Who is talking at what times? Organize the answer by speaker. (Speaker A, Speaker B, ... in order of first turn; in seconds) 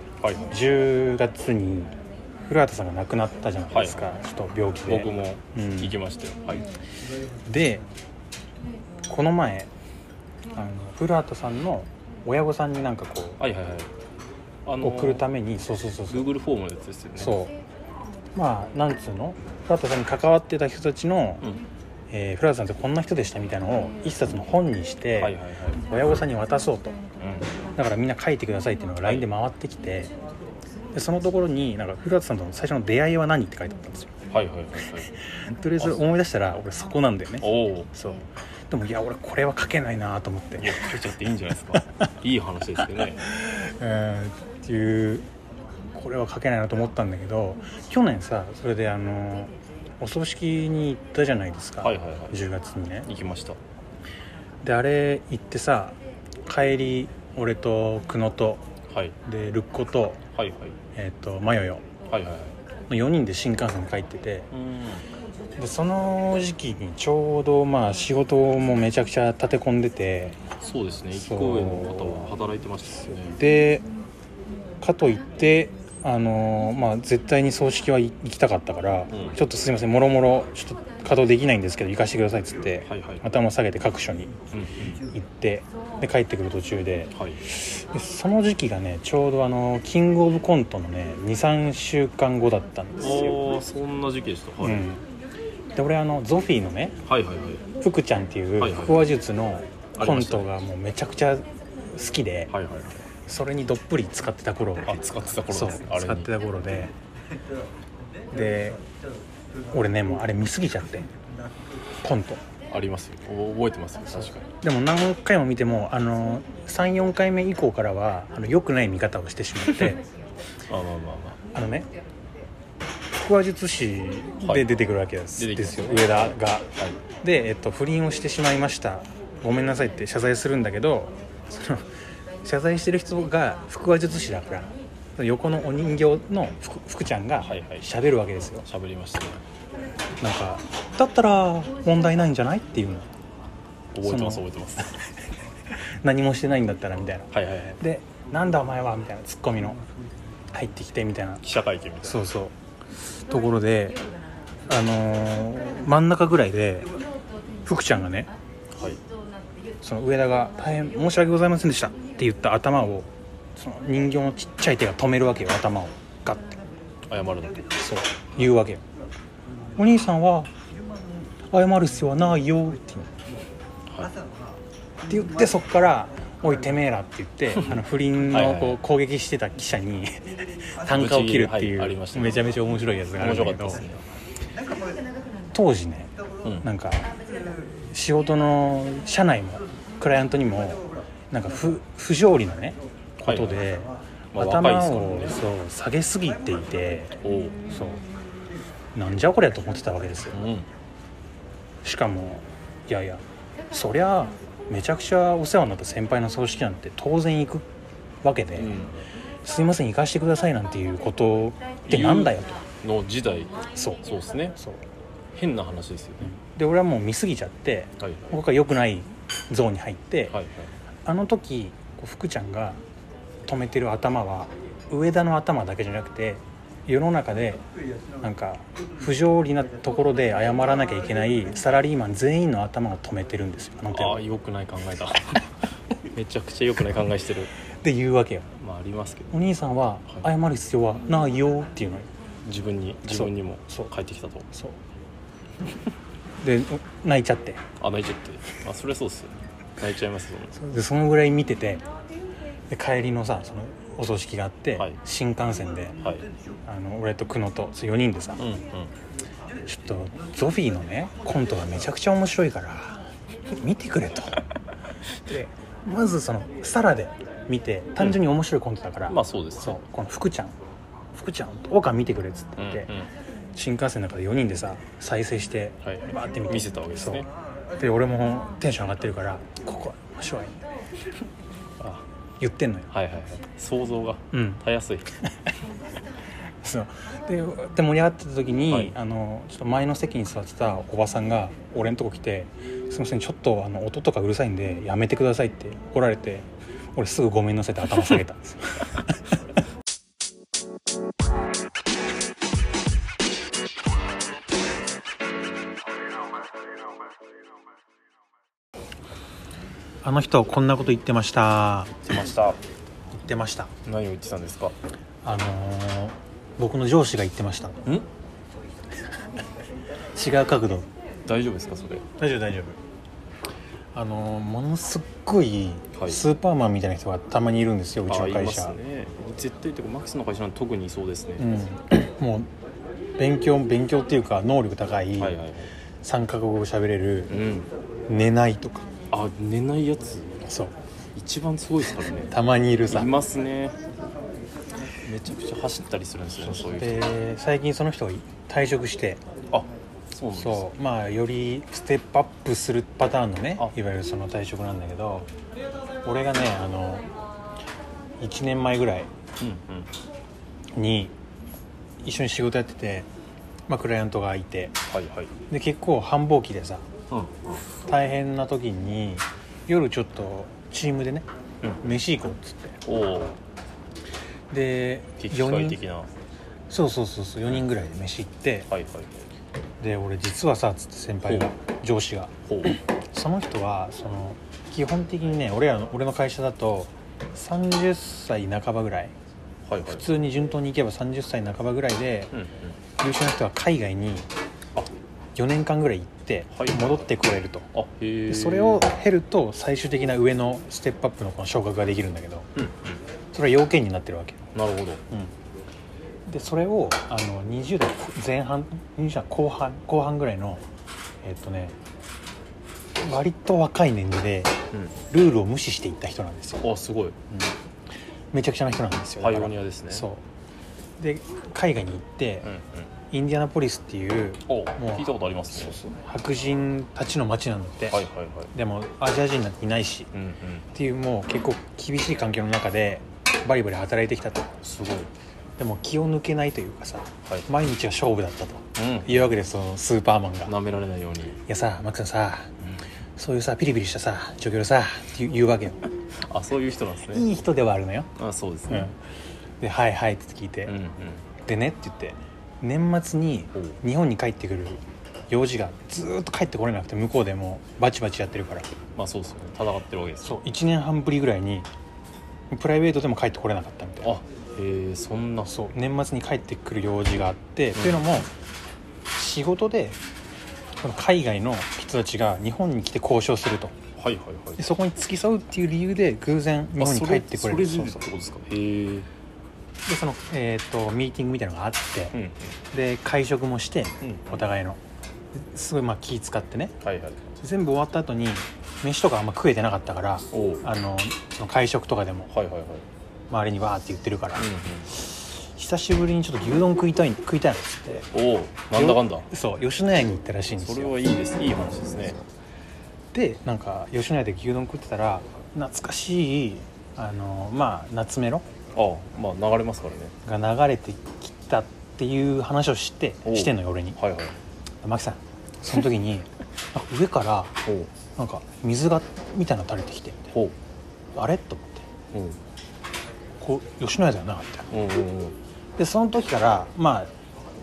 Speaker A: 0.2-0.5, 3.7-4.2, 4.9-6.7, 13.4-13.9, 14.7-15.3, 16.1-17.4, 25.2-26.2, 27.2-27.5, 34.3-35.1, 37.4-37.9, 40.6-43.2, 51.8-52.4, 53.1-53.6, 58.9-59.2, 60.4-60.8, 62.1-62.6, 64.5-65.1, 70.6-73.4, 79.1-79.4, 82.9-83.3, 84.5-85.1, 87.1-87.4, 93.0-94.9, 97.0-97.7, 98.6-99.1, 100.0-100.5, 102.5-103.0, 104.8-106.3, 112.7-114.5, 120.7-121.4, 125.4-127.0, 137.4-137.9, 138.7-139.4, 143.9-145.0, 147.3-147.8, 151.4-152.3, 158.7-159.0, 167.1-167.6, 173.9-174.2, 178.3-178.8, 180.9-182.5, 183.2-184.0, 193.2-193.6, 194.3-195.4, 197.2-197.6, 200.3-200.7, 208.6-209.0, 211.9-214.6, 215.3-216.4, 218.0-218.3, 220.3-220.7, 233.9-235.4, 236.0-237.5, 238.6-239.3, 242.4-244.5, 247.8-250.6, 256.0-256.3, 258.4-258.9, 269.1-269.8, 272.6-273.1, 275.8-277.3, 281.8-282.1, 282.9-285.1, 288.7-288.9, 312.1-312.6, 313.9-314.8, 321.3-322.1, 325.9-326.2, 328.1-331.5, 335.2-335.7, 337.3-337.7, 339.1-340.4, 341.1-342.3, 342.9-343.8, 345.0-347.1, 349.5-350.7, 359.4-359.9, 364.9-365.3, 367.1-367.6, 372.8-373.4, 375.2-376.1, 378.7-379.3, 381.3-381.5, 382.5-382.8, 389.7-390.1, 392.3-392.8, 396.5-397.1, 397.7-398.9, 402.6-403.0, 404.5-405.0, 416.6-417.2, 419.2-420.1, 422.4-422.9, 424.5-425.8, 427.9-428.5, 430.1-430.7, 434.6-435.1, 438.8-439.4, 440.5-441.4, 446.2-447.3, 448.2-448.9, 450.6-451.3, 458.9-460.4, 464.0-465.6, 467.8-468.1, 474.0-474.6, 476.8-479.1, 482.1-482.6, 484.0-484.4, 486.8-487.4, 490.3-490.6, 492.3-492.9, 494.4-494.9, 498.1-499.3, 500.6-502.2, 508.8-510.1, 513.2-514.4, 517.6-517.9, 522.1-522.4, 524.7-525.4
Speaker B: 0.5-6.0, 7.5-7.8, 9.1-9.7, 10.5-13.4, 14.8-16.3, 17.2-17.6, 18.4-21.4, 22.1-25.4, 25.9-27.0, 27.8-30.1, 30.9-34.1, 35.2-40.9, 43.2-45.3, 45.9-53.1, 54.6-58.6, 59.2-60.2, 61.0-61.9, 62.9-64.5, 65.6-70.4, 71.1-72.4, 73.3-73.8, 74.8-84.3, 84.8-93.4, 94.6-95.0, 95.7-97.0, 97.8-102.5, 103.2-106.9, 108.3-108.8, 109.7-111.1, 112.0-112.4, 114.6-120.0, 121.5-121.9, 123.2-126.7, 127.2-131.9, 132.4-138.7, 140.2-143.1, 144.0-145.0, 145.7-149.8, 150.5-151.4, 152.0-154.0, 154.7-156.9, 157.7-158.3, 159.8-166.6, 167.8-168.8, 169.8-170.5, 171.5-173.2, 175.1-183.8, 185.5-197.2, 197.7-198.1, 198.9-200.5, 201.8-207.7, 208.2-208.8, 209.4-212.6, 213.8-214.0, 214.6-214.8, 216.2-220.4, 221.1-222.8, 223.4-227.6, 228.2-234.2, 237.8-238.5, 239.3-242.1, 243.1-243.9, 244.5-244.8, 246.4-247.6, 250.6-251.8, 252.7-256.0, 256.6-258.4, 259.6-264.4, 265.2-270.6, 271.1-272.9, 273.5-277.2, 277.8-280.6, 282.4-282.9, 284.3-284.6, 286.6-299.2, 310.0-311.9, 313.1-313.7, 315.2-317.8, 320.1-320.9, 322.2-322.8, 323.9-328.8, 331.4-332.5, 333.2-335.4, 336.0-337.4, 338.1-338.9, 340.4-340.8, 342.2-343.1, 346.4-349.2, 350.4-355.3, 356.0-357.1, 358.2-359.1, 360.8-361.1, 362.0-363.1, 363.7-364.8, 365.5-366.9, 367.9-371.3, 371.8-372.8, 374.5-375.8, 376.7-378.7, 379.8-382.3, 382.9-389.1, 389.9-392.3, 393.0-394.3, 395.4-397.7, 398.3-402.5, 403.3-404.5, 406.3-410.6, 411.2-411.8, 413.0-414.6, 415.1-416.7, 418.3-420.2, 421.0-422.5, 423.1-430.1, 430.7-434.5, 435.6-440.6, 441.5-442.5, 443.2-445.8, 447.1-448.1, 449.6-450.8, 451.4-458.7, 460.2-461.7, 462.5-464.1, 465.5-468.3, 469.1-470.0, 470.8-473.8, 474.6-478.0, 479.9-482.1, 482.7-484.8, 485.3-486.8, 487.4-492.3, 493.3-498.1, 498.7-501.0, 503.1-508.5, 510.2-514.0, 514.8-517.6, 518.2-520.3, 521.1-521.9, 523.4-524.7, 525.8-527.1